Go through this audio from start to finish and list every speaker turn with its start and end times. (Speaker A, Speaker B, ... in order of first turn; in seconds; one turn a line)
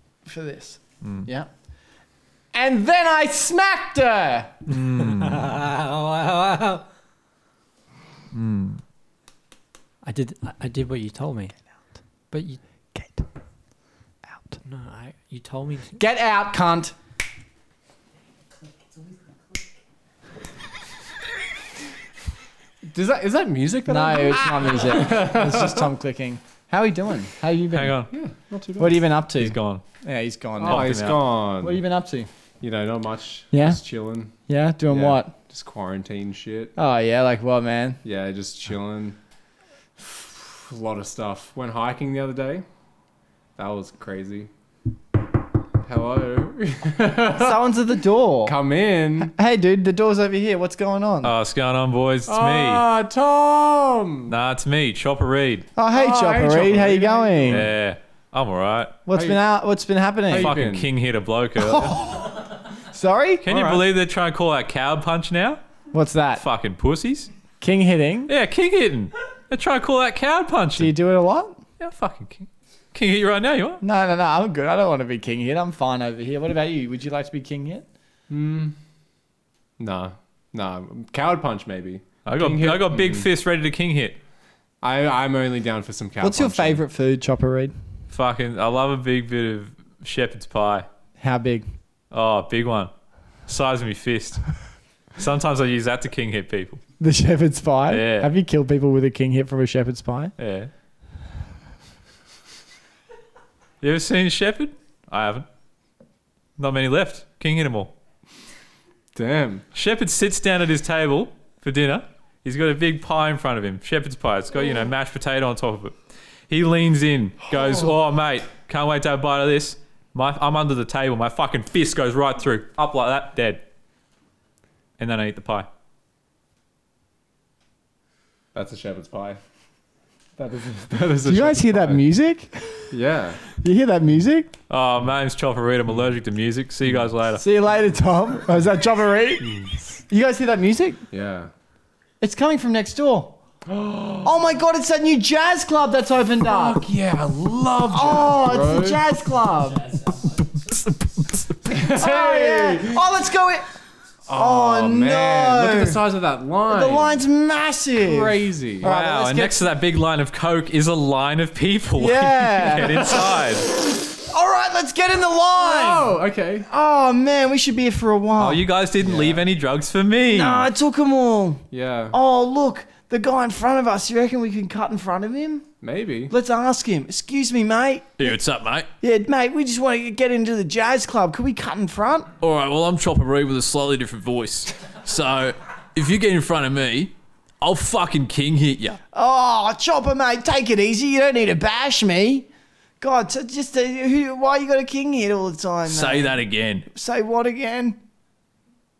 Speaker A: 0.2-1.5
Speaker A: 2.5-4.7
Speaker B: 4.7-5.6
Speaker C: 5.1-6.8
Speaker B: 8.3-8.8
Speaker C: 10.0-11.6
Speaker C: 12.3-12.6
Speaker C: 14.6-16.0
Speaker A: 15.9-16.9
Speaker D: 22.9-25.9
Speaker A: 23.9-28.0
Speaker B: 27.7-28.1
Speaker D: 28.1-29.1
Speaker A: 28.8-30.9
Speaker B: 29.4-29.8
Speaker D: 30.6-31.8
Speaker B: 30.6-31.2
Speaker A: 31.6-32.3
Speaker D: 32.6-34.4
Speaker A: 33.5-33.8
Speaker A: 34.5-35.3
Speaker D: 34.9-36.7
Speaker A: 36.8-38.0
Speaker D: 38.0-39.2
Speaker D: 40.0-42.6
Speaker D: 43.6-44.5
Speaker D: 45.8-47.8
Speaker A: 47.3-48.6
Speaker D: 48.4-49.3
Speaker A: 49.2-51.3
Speaker B: 51.2-52.9
Speaker D: 52.3-54.4
Speaker B: 54.3-55.7
Speaker A: 55.8-57.7
Speaker D: 55.9-57.7
Speaker B: 57.5-58.9
Speaker A: 59.1-60.5
Speaker D: 59.1-59.4
Speaker D: 60.3-60.9
Speaker B: 60.3-62.0
Speaker A: 61.6-63.5
Speaker B: 63.4-65.6
Speaker D: 63.5-63.9
Speaker A: 65.9-66.4
Speaker B: 66.4-67.3
Speaker A: 67.6-68.3
Speaker B: 68.3-70.9
Speaker A: 70.8-71.6
Speaker B: 71.8-73.8
Speaker A: 73.8-77.8
Speaker D: 78.3-78.8
Speaker D: 79.8-83.3
Speaker B: 82.3-84.2
Speaker D: 84.8-86.8
Speaker A: 86.2-87.7
Speaker B: 88.1-90.9
Speaker A: 91.2-91.7
Speaker B: 92.1-92.9
Speaker B: 93.5-94.5
Speaker B: 95.2-96.8
Speaker A: 97.0-100.3
Speaker B: 97.9-98.3
Speaker B: 100.4-100.7
Speaker B: 103.8-105.5
Speaker B: 106.6-107.9
Speaker D: 109.2-109.7
Speaker B: 109.7-116.0
Speaker B: 116.5-123.6
Speaker B: 125.0-125.7
Speaker D: 128.5-129.4
Speaker D: 130.4-132.0
Speaker A: 131.2-132.8
Speaker D: 132.9-133.4
Speaker A: 133.6-134.5
Speaker B: 134.7-137.4
Speaker A: 137.4-141.0
Speaker D: 141.1-141.5
Speaker A: 142.2-143.4
Speaker D: 143.7-144.5
Speaker A: 144.2-146.9
Speaker D: 146.4-149.1
Speaker A: 147.9-150.0
Speaker B: 150.2-151.7
Speaker D: 151.7-153.1
Speaker A: 151.9-153.7
Speaker D: 154.3-157.2
Speaker A: 154.3-156.0
Speaker A: 156.7-159.7
Speaker D: 158.0-158.9
Speaker B: 158.8-163.7
Speaker A: 162.0-166.1
Speaker D: 165.5-166.7
Speaker A: 166.7-168.6
Speaker B: 168.4-170.7
Speaker D: 169.0-169.4
Speaker A: 170.3-175.7
Speaker D: 171.7-172.2
Speaker D: 175.8-176.3
Speaker A: 176.3-178.4
Speaker B: 178.2-178.9
Speaker A: 179.0-182.3
Speaker B: 182.4-189.0
Speaker A: 189.1-192.5
Speaker A: 193.0-198.0
Speaker B: 195.9-196.9